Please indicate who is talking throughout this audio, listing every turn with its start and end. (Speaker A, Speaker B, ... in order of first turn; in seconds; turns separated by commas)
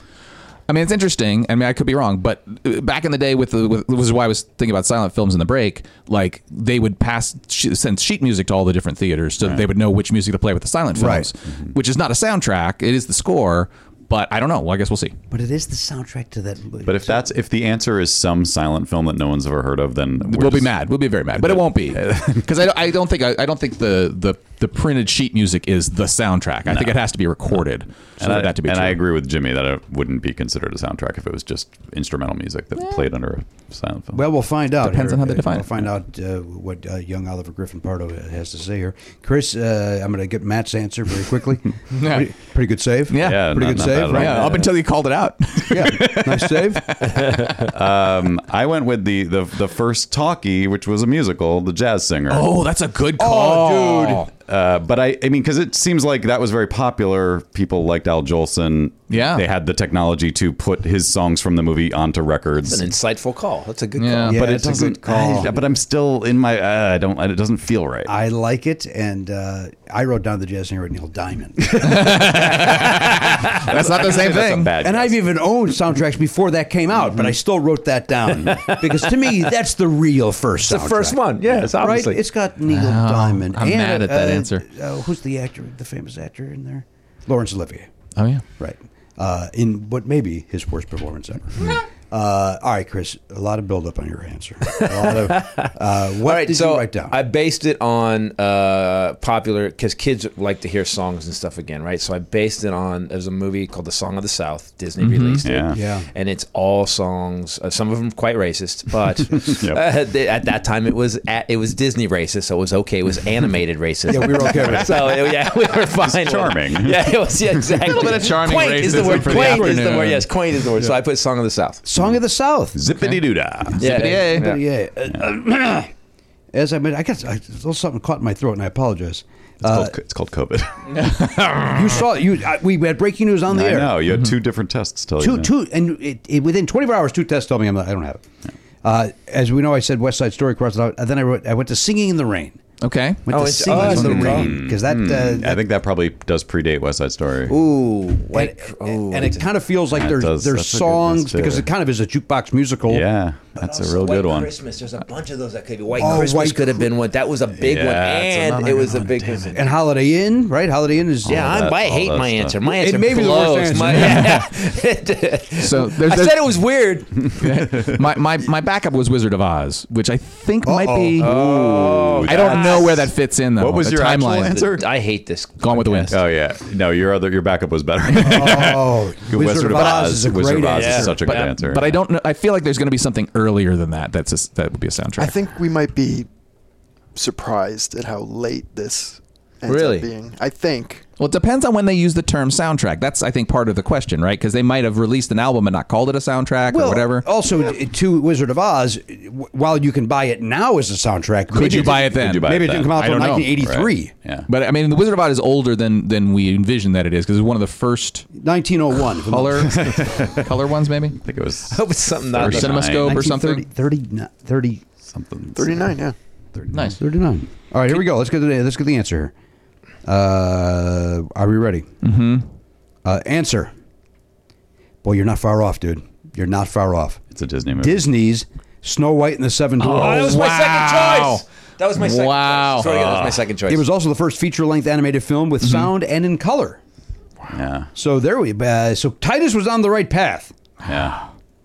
Speaker A: 0.7-15.2, Speaker B: 10.9-11.3, Speaker B: 15.3-17.3, Speaker C: 16.8-20.7, Speaker A: 20.2-29.0, Speaker C: 21.4-22.5, Speaker C: 26.7-27.0, Speaker C: 28.2-34.2, Speaker B: 34.1-44.5, Speaker A: 34.8-35.8, Speaker A: 41.9-42.3, Speaker A: 43.1-47.3, Speaker C: 43.1-44.7, Speaker B: 45.7-47.0, Speaker D: 47.1-47.7, Speaker C: 47.6-52.5, Speaker A: 52.3-54.3, Speaker B: 53.2-54.3, Speaker C: 54.5-62.9, Speaker A: 59.1-59.5, Speaker D: 62.6-64.4, Speaker A: 64.0-64.4, Speaker B: 64.2-65.5, Speaker C: 64.3-68.1, Speaker B: 68.1-72.2, Speaker A: 71.8-74.7, Speaker D: 71.8-73.5, Speaker C: 73.6-75.2, Speaker B: 74.8-87.9, Speaker D: 78.4-79.5, Speaker D: 80.6-82.2, Speaker C: 81.5-81.7, Speaker A: 82.7-84.6, Speaker A: 88.2-88.4, Speaker B: 88.6-97.2, Speaker D: 94.7-121.8, Speaker A: 105.0-105.4, Speaker C: 105.4-105.8, Speaker B: 105.7-106.1, Speaker C: 109.4-109.8, Speaker B: 114.1-115.0, Speaker C: 116.0-117.8, Speaker A: 117.8-120.2, Speaker B: 119.0-120.1, Speaker B: 121.8-122.8, Speaker C: 122.7-124.0, Speaker D: 123.8-124.6, Speaker A: 123.8-124.5, Speaker B: 123.9-125.9, Speaker B: 126.5-129.9, Speaker C: 129.6-131.0, Speaker B: 131.7-134.0, Speaker C: 133.5-135.5, Speaker B: 135.2-138.2, Speaker B: 138.8-142.6, Speaker A: 142.8-144.2, Speaker B: 143.3-145.6, Speaker D: 143.3-144.5, Speaker C: 143.9-147.5, Speaker D: 147.5-149.5, Speaker B: 148.3-153.0, Speaker C: 149.9-151.7, Speaker C: 152.9-154.5, Speaker D: 153.6-159.6, Speaker B: 156.0-156.9, Speaker C: 157.6-159.6, Speaker B: 159.5-161.5, Speaker C: 161.2-162.6, Speaker D: 161.2-167.3, Speaker B: 162.6-164.3, Speaker A: 163.9-164.5, Speaker A: 165.6-166.4, Speaker A: 167.2-171.3, Speaker C: 167.7-168.0, Speaker B: 170.6-171.3, Speaker D: 171.2-173.0, Speaker C: 171.2-174.8, Speaker A: 172.2-174.7, Speaker D: 174.5-176.2, Speaker A: 175.6-176.1, Speaker C: 176.1-182.0, Speaker B: 178.2-181.3, Speaker D: 180.7-181.6, Speaker A: 181.4-185.3, Speaker E: 185.2-186.3, Speaker E: 187.1-191.0, Speaker D: 189.7-190.1, Speaker A: 191.2-197.2, Speaker B: 196.7-204.1, Speaker A: 201.5-203.5, Speaker C: 201.6-204.5, Speaker A: 204.5-208.3, Speaker B: 208.3-209.7, Speaker A: 209.1-211.2, Speaker C: 209.7-210.5, Speaker C: 211.2-213.3, Speaker D: 211.7-212.8, Speaker A: 212.4-213.6, Speaker B: 213.0-214.8, Speaker C: 215.1-215.8, Speaker E: 215.6-216.2, Speaker B: 216.6-219.3, Speaker A: 216.7-217.0, Speaker B: 220.0-221.9, Speaker A: 222.0-222.4, Speaker B: 223.0-223.7, Speaker B: 225.0-227.2, Speaker C: 227.3-228.0, Speaker B: 227.8-230.4, Speaker A: 229.8-231.4, Speaker D: 229.9-233.8, Speaker A: 231.9-232.9, Speaker C: 232.8-233.4, Speaker B: 233.7-236.8, Speaker A: 235.6-235.9, Speaker C: 237.5-237.9, Speaker B: 237.9-240.5, Speaker C: 240.8-241.2